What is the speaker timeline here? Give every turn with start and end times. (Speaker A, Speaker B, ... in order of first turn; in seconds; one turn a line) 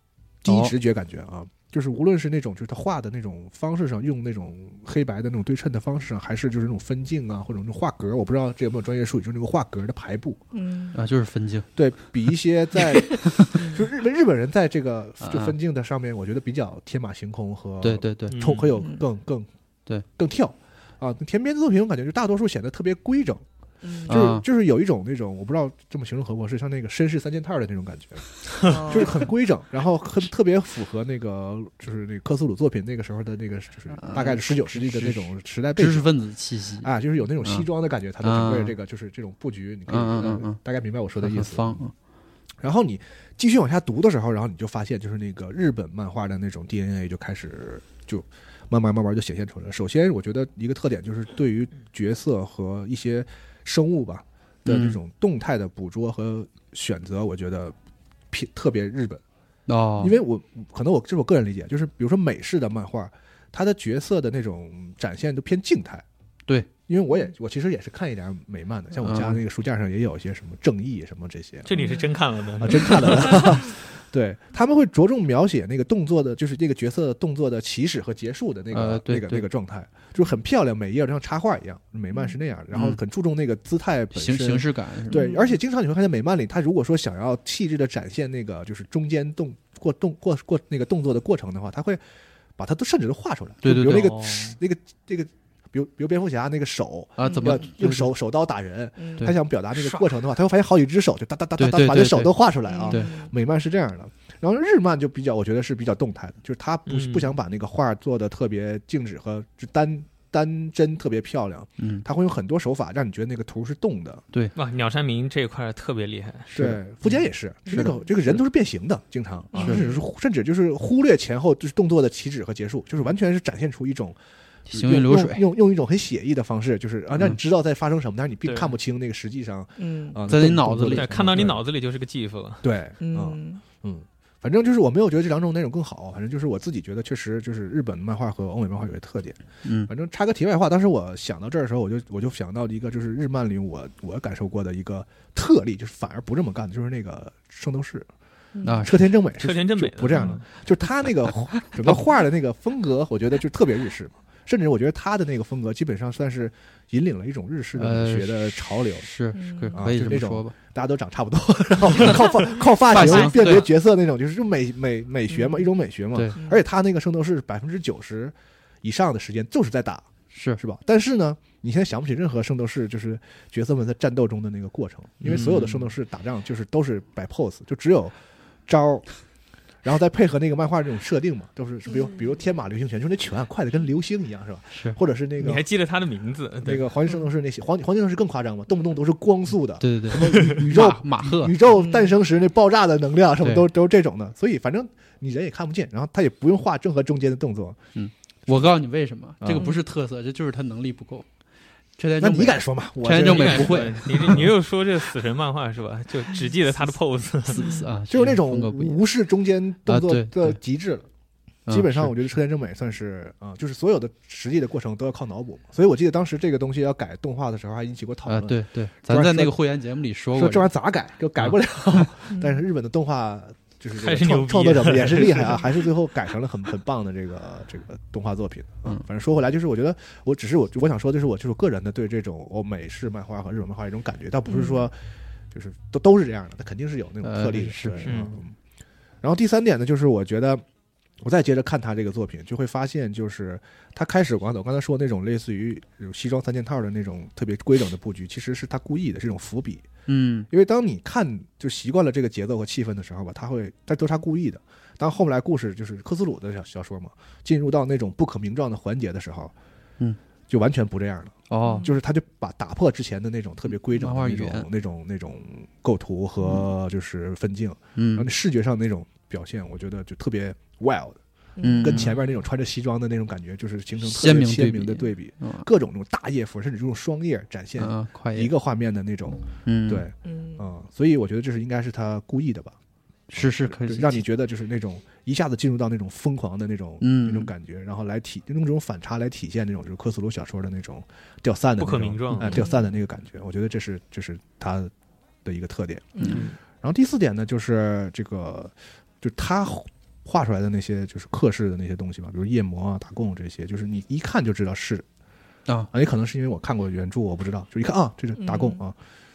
Speaker A: 0.4-10.4
Speaker B: 0.5-0.7
Speaker C: 10.5-11.0
Speaker B: 10.9-11.7
Speaker A: 11.8-19.5
Speaker B: 15.2-15.5
Speaker B: 17.8-18.5
Speaker D: 18.3-18.7
Speaker A: 20.1-23.4
Speaker C: 23.8-24.2
Speaker A: 24.0-36.1
Speaker B: 24.1-24.4
Speaker C: 28.6-29.2
Speaker B: 34.0-35.2
Speaker B: 35.8-36.9
Speaker A: 36.8-41.8
Speaker B: 38.2-38.7
Speaker B: 39.9-40.6
Speaker B: 41.2-41.9
Speaker A: 42.6-57.7
Speaker B: 54.6-55.0
Speaker A: 58.3-59.2
Speaker B: 59.7-60.2
Speaker A: 60.0-66.0
Speaker A: 66.9-71.7
Speaker B: 69.0-69.4
Speaker D: 71.6-73.6
Speaker C: 71.7-72.1
Speaker A: 72.6-92.0
Speaker B: 78.7-79.5
Speaker B: 82.7-83.0
Speaker B: 84.1-85.2
Speaker C: 85.1-85.6
Speaker A: 92.6-114.2
Speaker B: 93.6-94.2
Speaker D: 93.9-94.6
Speaker B: 97.2-98.1
Speaker C: 97.2-97.6
Speaker C: 99.0-99.3
Speaker B: 101.6-102.3
Speaker C: 102.7-103.3
Speaker D: 106.9-107.3
Speaker B: 111.8-112.0
Speaker D: 114.5-116.5
Speaker A: 116.5-124.2
Speaker C: 117.7-118.0
Speaker C: 119.5-120.0
Speaker B: 119.6-119.8
Speaker B: 124.7-125.4
Speaker A: 124.7-131.6
Speaker D: 128.4-128.7
Speaker C: 129.8-130.2
Speaker B: 130.3-131.4
Speaker D: 130.9-132.6
Speaker A: 132.6-148.1
Speaker C: 133.0-133.6
Speaker B: 139.6-139.9
Speaker C: 148.5-148.8
Speaker B: 148.6-149.1
Speaker A: 148.8-159.1
Speaker D: 149.4-150.4
Speaker B: 157.8-160.5
Speaker C: 159.3-159.8
Speaker A: 159.7-179.1
Speaker B: 162.8-163.7
Speaker C: 165.3-165.7
Speaker B: 170.3-170.6
Speaker B: 175.2-175.9
Speaker A: 179.8-185.6
Speaker D: 185.4-186.9
Speaker A: 186.6-197.8
Speaker B: 189.8-191.6
Speaker C: 191.7-192.1
Speaker B: 193.4-193.7
Speaker B: 197.9-201.2
Speaker A: 199.4-199.7
Speaker C: 199.5-199.8
Speaker B: 202.0-204.5
Speaker A: 202.2-204.5
Speaker D: 203.2-207.7
Speaker B: 207.5-209.0
Speaker C: 207.6-207.9
Speaker A: 208.1-211.1
Speaker B: 209.9-210.6
Speaker B: 211.7-212.1
Speaker A: 211.7-219.6
Speaker B: 218.2-220.7
Speaker A: 220.3-234.9
Speaker B: 221.4-222.1
Speaker C: 222.3-222.6
Speaker D: 224.0-225.7
Speaker C: 234.5-234.8
Speaker A: 235.5-238.5
Speaker B: 237.2-238.2
Speaker D: 238.0-238.3
Speaker A: 239.2-240.6
Speaker A: 241.2-249.9
Speaker B: 250.1-250.5
Speaker A: 250.5-259.5
Speaker A: 260.5-282.8
Speaker B: 261.5-261.9
Speaker C: 261.6-261.9
Speaker B: 263.9-264.7
Speaker B: 266.4-266.7
Speaker B: 267.9-268.3
Speaker C: 271.6-272.1
Speaker B: 271.6-272.2
Speaker B: 274.0-275.7
Speaker B: 277.8-278.5
Speaker B: 279.6-280.1
Speaker C: 280.2-280.6
Speaker B: 283.3-284.2
Speaker A: 283.4-294.9
Speaker B: 287.0-287.5
Speaker D: 291.8-292.5
Speaker C: 292.5-292.8
Speaker A: 295.4-305.0
Speaker C: 296.1-296.4
Speaker D: 296.3-296.6
Speaker A: 305.9-308.9
Speaker C: 308.4-308.8